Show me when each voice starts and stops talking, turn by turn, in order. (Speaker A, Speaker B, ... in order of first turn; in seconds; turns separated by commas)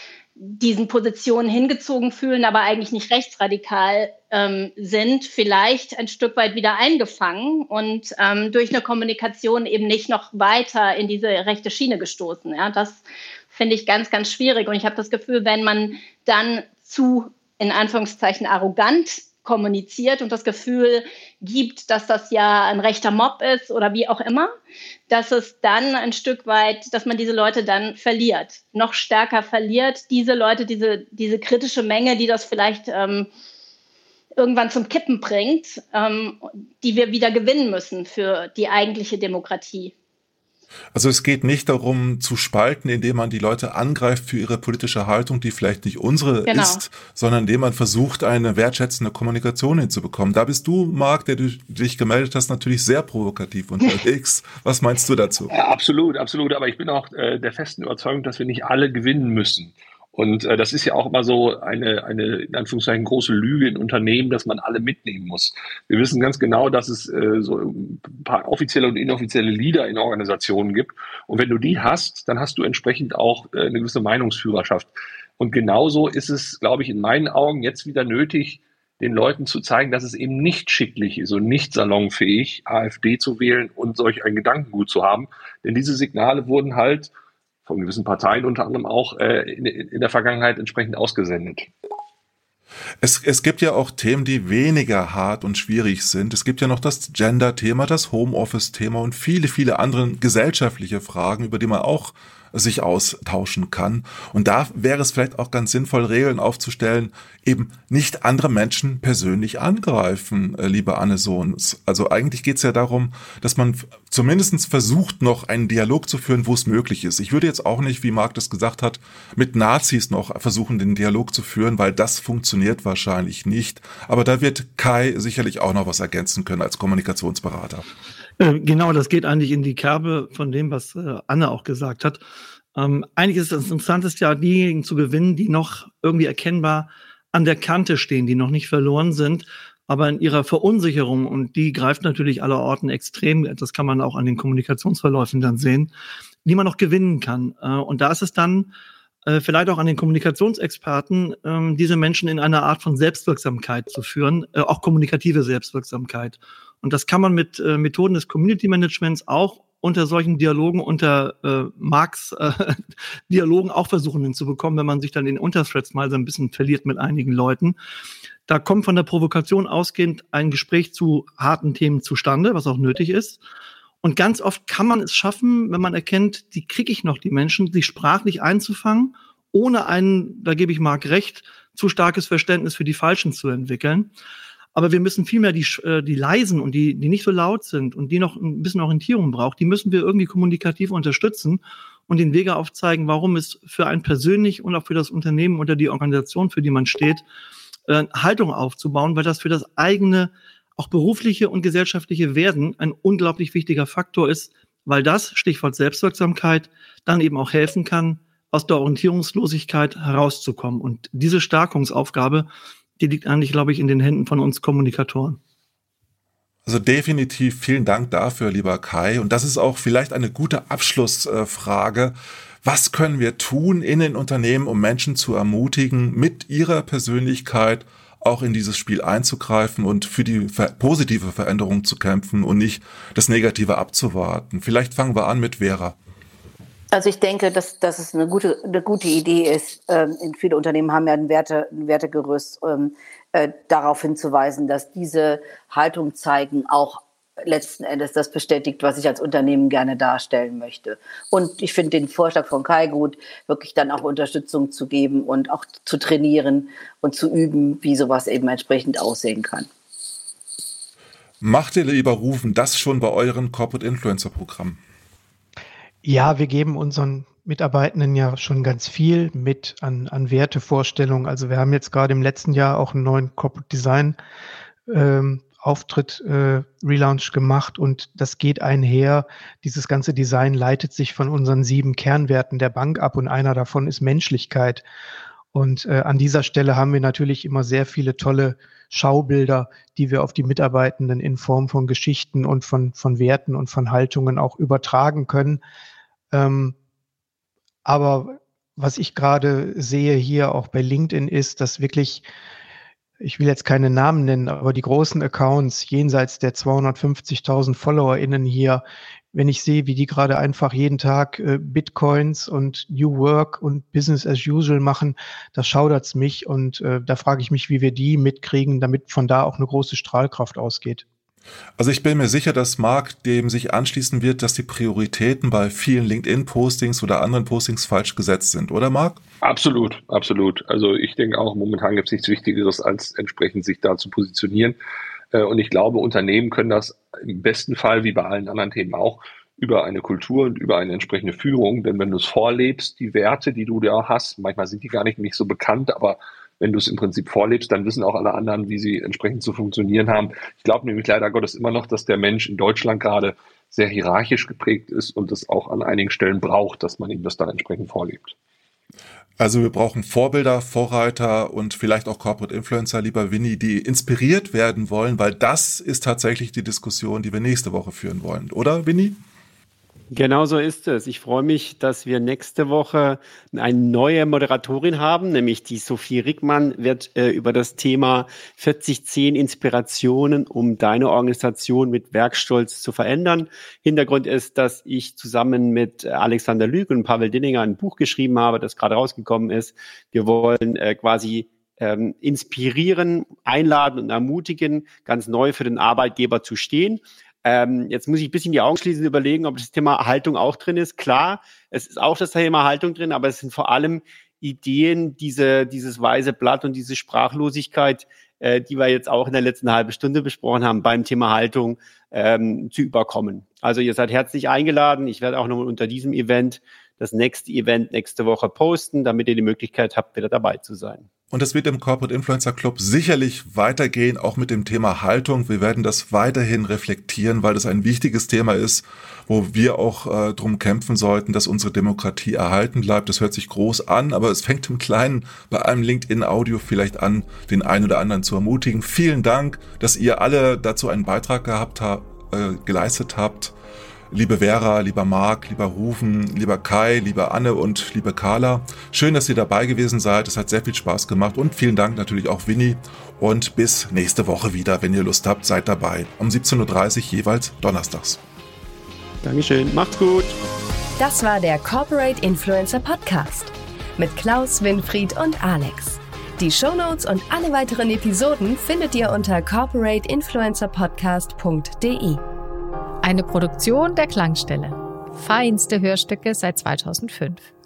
Speaker A: 0.4-24.5, Speaker A: 25.1-33.3, Speaker A: 34.4-39.9, Speaker B: 40.9-55.5, Speaker A: 46.5-46.8, Speaker C: 55.5-87.1, Speaker C: 87.7-91.7, Speaker B: 93.0-127.8, Speaker D: 128.4-132.2, Speaker D: 132.7-145.9, Speaker D: 146.4-148.7, Speaker D: 149.2-167.8, Speaker D: 168.5-173.4, Speaker D: 174.0-184.1, Speaker D: 184.7-197.2, Speaker D: 197.9-212.5, Speaker D: 213.0-215.4, Speaker B: 216.7-235.9, Speaker E: 236.9-259.7, Speaker B: 261.4-264.8, Speaker F: 266.0-274.1, Speaker F: 274.9-284.8, Speaker F: 285.5-295.6, Speaker F: 296.3-296.7, Speaker F: 297.8-302.2, Speaker F: 303.2-321.0, Speaker B: 321.8-329.2, Speaker C: 329.4-334.8, Speaker C: 335.3-358.4, Speaker B: 359.4-369.2, Speaker G: 370.1-421.1, Speaker B: 421.3-443.5, Speaker B: 444.1-458.2, Speaker G: 459.2-460.4, Speaker H: 461.0-472.2, Speaker I: 473.0-477.5